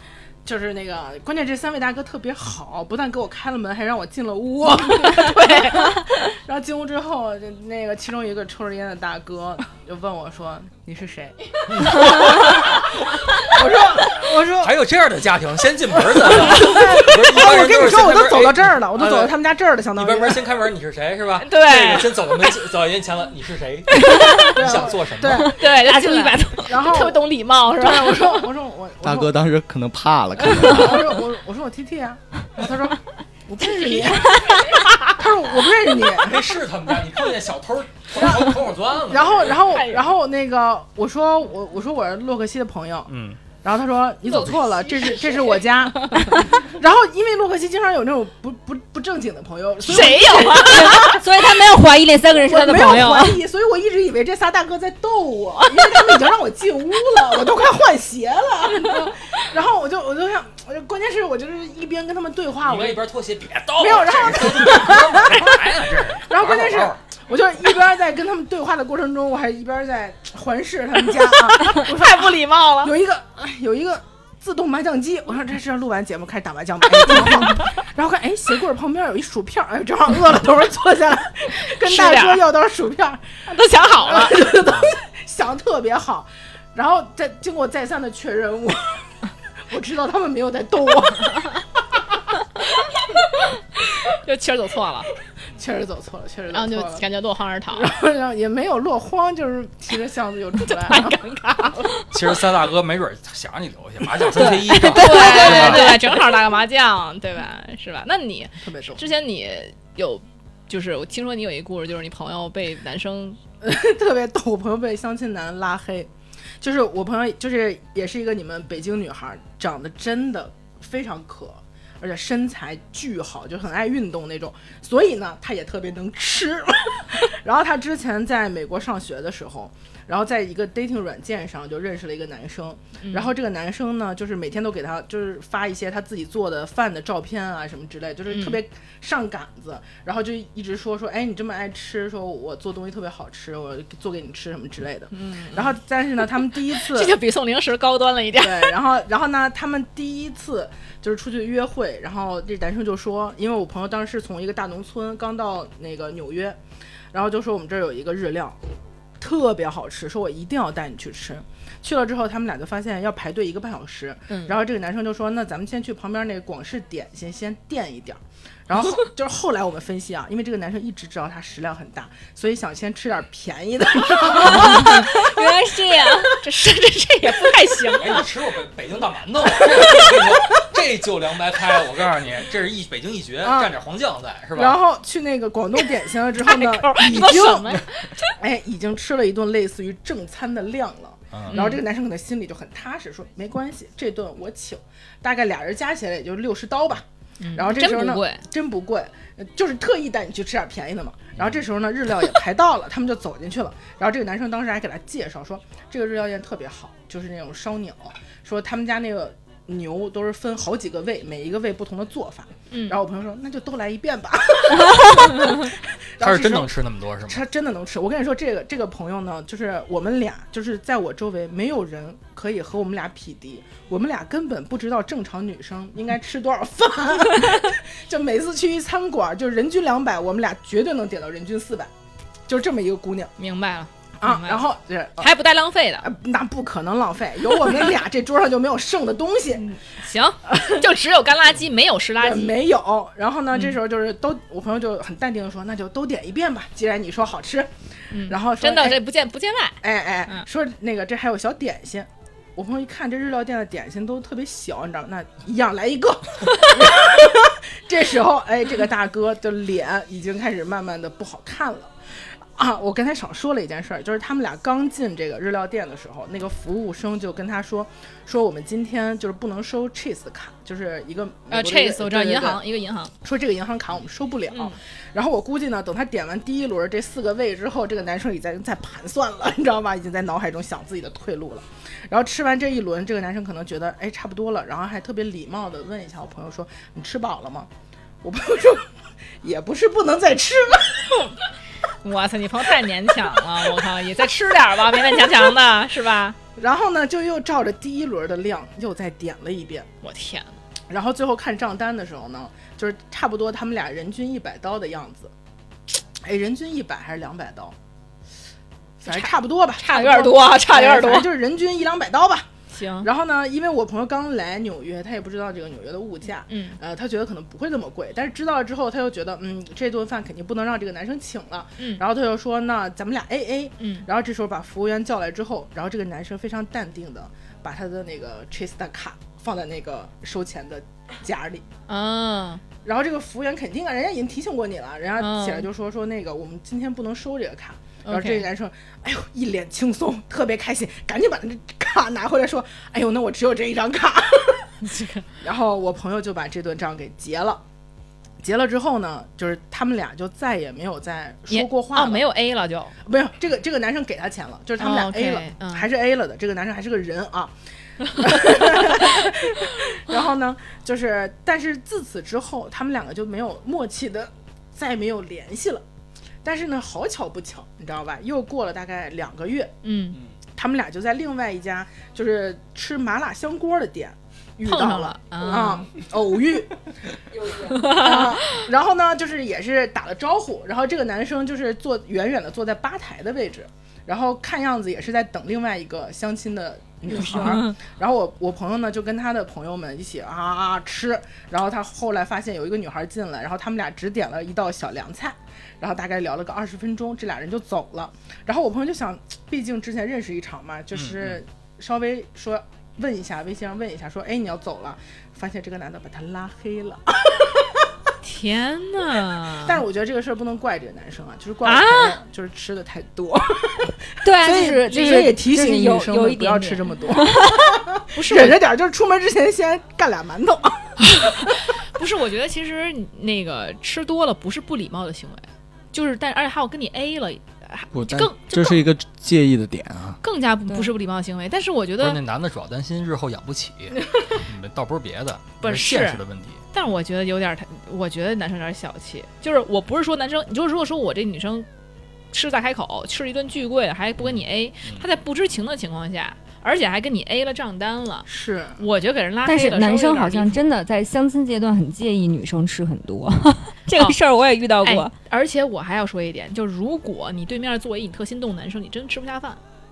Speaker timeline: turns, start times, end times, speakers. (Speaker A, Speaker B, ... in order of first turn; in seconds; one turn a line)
Speaker A: 0.5-14.8
Speaker B: 4.9-6.1
Speaker C: 11.7-12.9
Speaker C: 14.5-19.4
Speaker A: 15.9-20.5
Speaker C: 19.9-25.5
Speaker B: 21.4-22.6
Speaker B: 23.9-24.6
Speaker A: 24.5-29.3
Speaker B: 25.4-28.5
Speaker D: 26.0-26.4
Speaker E: 29.0-31.2
Speaker B: 30.4-30.7
Speaker A: 30.5-36.5
Speaker B: 34.0-35.1
Speaker C: 36.1-39.7
Speaker A: 38.2-38.6
Speaker A: 39.1-51.2
Speaker B: 39.7-40.0
Speaker C: 43.1-43.4
Speaker B: 44.3-46.3
Speaker B: 49.9-51.2
Speaker D: 50.6-53.4
Speaker A: 52.4-63.1
Speaker B: 52.5-53.4
Speaker C: 62.6-67.0
Speaker A: 63.8-83.5
Speaker B: 71.6-72.9
Speaker B: 81.7-82.5
Speaker B: 83.5-84.5
Speaker A: 84.0-89.0
Speaker A: 89.7-92.0
Speaker B: 94.1-95.1
Speaker A: 95.6-97.0
Speaker B: 96.5-97.9
Speaker A: 97.7-101.9
Speaker B: 100.7-101.9
Speaker C: 102.1-106.0
Speaker D: 104.3-106.2
Speaker B: 104.7-113.4
Speaker A: 108.6-109.0
Speaker A: 113.6-116.1
Speaker A: 116.6-147.2
Speaker B: 133.0-133.3
Speaker B: 138.3-138.6
Speaker B: 145.2-145.8
Speaker B: 146.5-148.8
Speaker A: 148.4-156.6
Speaker A: 157.1-158.6
Speaker A: 159.2-175.0
Speaker B: 164.3-164.6
Speaker B: 174.4-175.1
Speaker D: 174.4-176.4
Speaker B: 176.4-178.3
Speaker C: 178.0-184.8
Speaker A: 183.4-183.8
Speaker A: 184.6-187.8
Speaker B: 186.4-188.3
Speaker A: 188.4-216.8
Speaker C: 191.3-191.7
Speaker B: 191.5-191.8
Speaker B: 197.4-198.4
Speaker C: 201.4-201.6
Speaker B: 212.7-213.0
Speaker C: 216.2-217.4
Speaker A: 217.3-231.9
Speaker A: 232.5-233.3
Speaker B: 233.4-234.6
Speaker A: 234.2-235.3
Speaker B: 235.2-236.1
Speaker A: 236.0-239.7
Speaker B: 239.6-242.6
Speaker A: 242.2-247.7
Speaker B: 243.5-243.8
Speaker B: 248.1-250.5
Speaker A: 248.3-249.0
Speaker A: 249.8-261.9
Speaker A: 262.6-272.6
Speaker B: 271.5-273.1
Speaker A: 273.2-287.7
Speaker B: 274.5-274.8
Speaker A: 288.2-288.9
Speaker A: 289.4-291.3
Speaker B: 292.0-296.4
Speaker A: 296.6-299.9
Speaker B: 300.0-300.6
Speaker A: 300.9-305.3
Speaker A: 306.2-307.8
Speaker A: 309.0-312.5
Speaker B: 309.1-311.3
Speaker B: 312.7-313.1
Speaker A: 313.0-331.6
Speaker B: 316.5-316.8
Speaker B: 323.8-324.1
Speaker B: 331.9-332.6
Speaker A: 332.8-344.7
Speaker B: 335.2-335.7
Speaker B: 338.1-338.5
Speaker B: 344.8-345.3
Speaker A: 345.4-347.6
Speaker A: 348.4-352.3
Speaker B: 351.5-353.0
Speaker A: 353.1-357.5
Speaker B: 354.8-355.9
Speaker A: 358.1-365.8
Speaker A: 366.4-369.7
Speaker B: 369.8-370.2
Speaker A: 370.6-376.9
Speaker B: 374.6-375.9
Speaker A: 377.5-407.9
Speaker B: 377.6-378.5
Speaker B: 387.2-387.7
Speaker C: 400.9-401.4
Speaker B: 408.2-409.8
Speaker A: 409.6-421.5
Speaker B: 411.6-412.2
Speaker D: 414.2-417.6
Speaker B: 414.7-415.1
Speaker B: 418.1-418.6
Speaker B: 421.1-428.9
Speaker E: 427.9-430.2
Speaker B: 430.2-432.2
Speaker C: 432.0-436.6
Speaker B: 435.6-436.2
Speaker B: 436.7-441.7
Speaker B: 442.3-450.6
Speaker C: 444.3-445.1
Speaker A: 448.3-448.8
Speaker D: 449.4-455.2
Speaker B: 454.8-459.6